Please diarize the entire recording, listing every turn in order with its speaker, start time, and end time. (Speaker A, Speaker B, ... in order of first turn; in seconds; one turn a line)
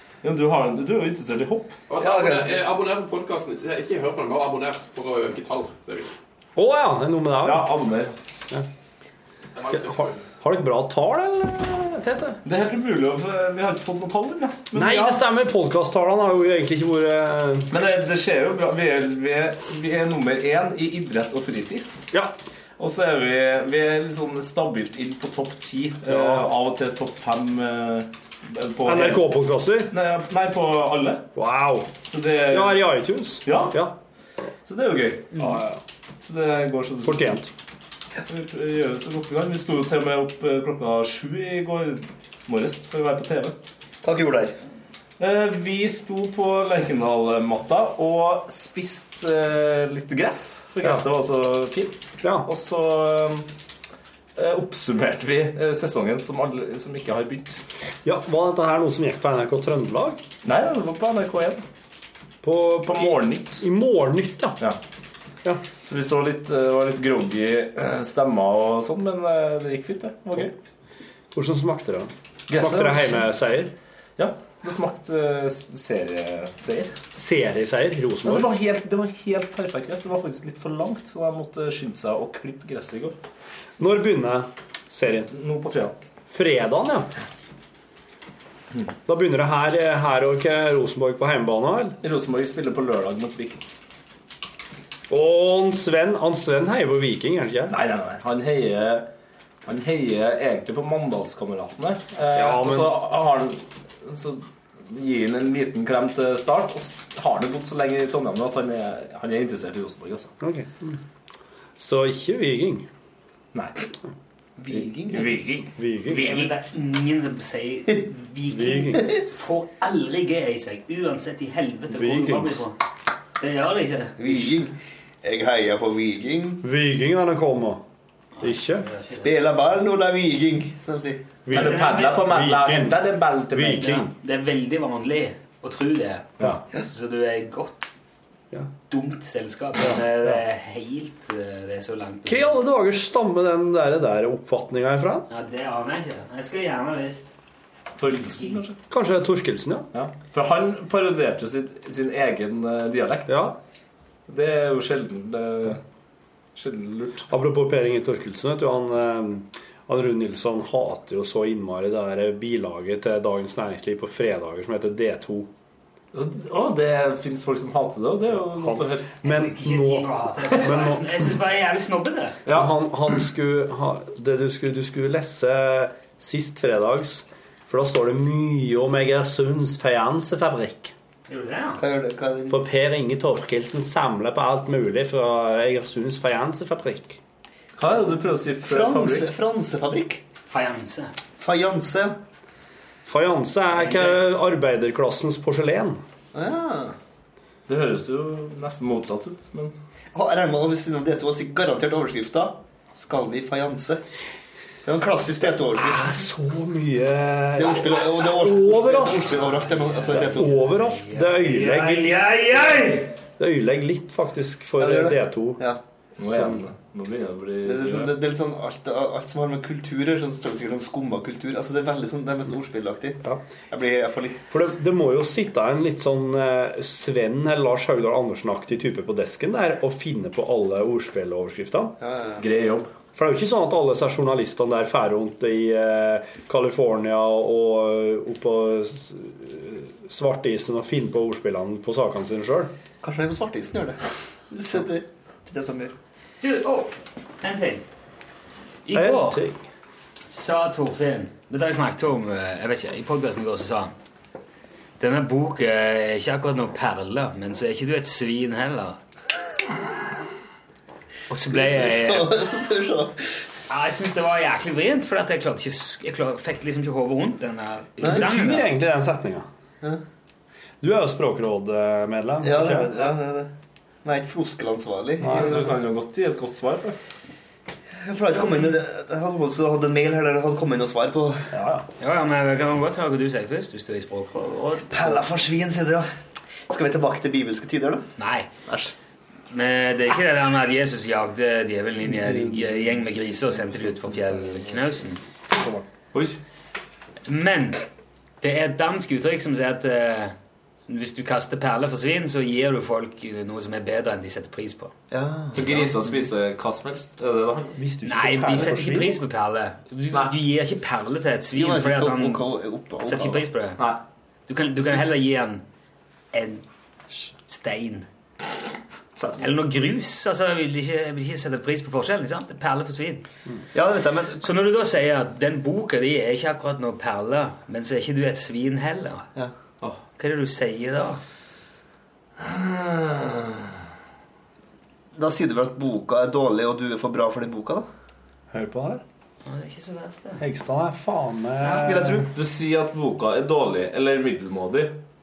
Speaker A: 0.2-1.8
Speaker B: 1.9-6.1
Speaker C: 2.0-2.6
Speaker D: 6.6-7.8
Speaker A: 7.4-8.1
Speaker B: 9.6-10.2
Speaker D: 9.7-12.4
Speaker A: 12.4-15.2
Speaker D: 14.7-17.7
Speaker A: 17.7-21.9
Speaker A: 22.8-29.3
Speaker D: 26.1-26.5
Speaker D: 28.9-29.9
Speaker A: 29.9-31.3
Speaker D: 31.4-31.9
Speaker A: 32.0-33.9
Speaker D: 32.5-34.0
Speaker A: 34.6-35.5
Speaker D: 35.4-35.8
Speaker A: 36.2-37.4
Speaker D: 37.0-37.5
Speaker A: 38.3-43.6
Speaker C: 44.0-44.6
Speaker A: 45.2-53.5
Speaker D: 52.2-52.5
Speaker A: 54.4-57.6
Speaker D: 58.0-60.2
Speaker A: 60.4-61.6
Speaker D: 62.4-64.6
Speaker A: 62.8-63.6
Speaker A: 65.8-70.5
Speaker D: 71.3-73.7
Speaker A: 72.5-73.3
Speaker A: 74.2-77.0
Speaker D: 77.1-78.5
Speaker A: 78.2-83.2
Speaker D: 83.8-85.3
Speaker A: 85.3-86.0
Speaker D: 86.3-87.1
Speaker D: 89.1-92.0
Speaker A: 92.0-93.6
Speaker D: 95.1-97.8
Speaker A: 97.7-99.1
Speaker A: 99.7-110.3
Speaker D: 102.3-103.0
Speaker D: 110.4-111.0
Speaker D: 111.8-112.9
Speaker C: 114.6-115.3
Speaker E: 115.1-122.8
Speaker D: 115.8-116.5
Speaker D: 118.5-119.1
Speaker D: 121.9-122.6
Speaker E: 123.4-124.4
Speaker C: 124.2-126.6
Speaker D: 126.6-127.8
Speaker E: 128.4-129.3
Speaker D: 128.4-128.9
Speaker C: 129.1-131.4
Speaker D: 131.5-134.1
Speaker E: 131.5-132.3
Speaker A: 131.5-134.0
Speaker E: 133.8-137.9
Speaker E: 138.9-142.6
Speaker D: 139.8-140.4
Speaker D: 142.3-145.3
Speaker E: 145.3-147.3
Speaker A: 148.0-148.8
Speaker E: 148.2-148.6
Speaker D: 148.9-149.9
Speaker A: 149.9-153.5
Speaker D: 153.3-153.6
Speaker A: 154.3-155.8
Speaker A: 156.6-157.3
Speaker D: 157.3-165.5
Speaker A: 166.1-169.1
Speaker D: 168.5-171.1
Speaker E: 169.2-172.4
Speaker A: 172.5-172.8
Speaker D: 172.5-180.9
Speaker E: 181.3-181.8
Speaker C: 181.8-182.6
Speaker D: 182.5-187.2
Speaker A: 187.8-189.3
Speaker C: 188.6-190.2
Speaker E: 190.5-191.1
Speaker C: 191.4-192.2
Speaker D: 193.1-196.0
Speaker E: 193.7-194.2
Speaker C: 196.3-197.0
Speaker A: 197.7-199.7
Speaker C: 200.1-204.0
Speaker C: 204.9-206.2
Speaker D: 205.7-209.3
Speaker C: 207.6-210.6
Speaker E: 209.3-213.1
Speaker D: 210.2-215.6
Speaker C: 214.8-215.8
Speaker A: 216.2-218.1
Speaker D: 216.2-216.6
Speaker C: 217.6-224.4
Speaker D: 224.5-232.0
Speaker C: 232.0-232.4
Speaker A: 232.4-232.9
Speaker D: 233.2-242.7
Speaker C: 243.0-244.0
Speaker C: 244.5-245.9
Speaker E: 246.4-247.8
Speaker E: 248.8-249.4
Speaker D: 248.9-249.6
Speaker E: 250.3-253.9
Speaker E: 255.0-259.0
Speaker E: 261.3-262.3
Speaker C: 261.4-263.1
Speaker E: 263.7-268.7
Speaker D: 268.0-269.5
Speaker D: 270.8-272.9
Speaker C: 272.4-273.5
Speaker C: 274.0-275.6
Speaker D: 275.2-275.6
Speaker A: 275.2-276.9
Speaker C: 278.0-281.5
Speaker D: 281.5-281.9
Speaker E: 282.0-285.2
Speaker C: 284.9-286.1
Speaker C: 286.7-288.9
Speaker E: 288.2-288.5
Speaker E: 289.5-295.2
Speaker D: 292.2-293.0
Speaker A: 296.1-296.4
Speaker E: 297.3-297.8
Speaker E: 298.4-300.4
Speaker E: 300.9-304.9
Speaker C: 305.1-305.9
Speaker A: 305.6-307.8
Speaker E: 305.6-305.9
Speaker D: 307.8-309.2
Speaker E: 308.0-312.5
Speaker C: 311.5-313.4
Speaker E: 313.0-313.9
Speaker E: 314.5-315.6
Speaker E: 316.3-316.6
Speaker E: 317.3-318.1
Speaker A: 319.2-319.6
Speaker E: 319.4-323.2
Speaker C: 323.7-324.4
Speaker E: 324.4-329.3
Speaker E: 330.2-331.2
Speaker A: 332.4-333.8
Speaker C: 335.2-337.9
Speaker D: 338.5-339.0
Speaker E: 339.4-340.4
Speaker D: 340.4-342.3
Speaker C: 341.7-342.3
Speaker A: 342.3-345.0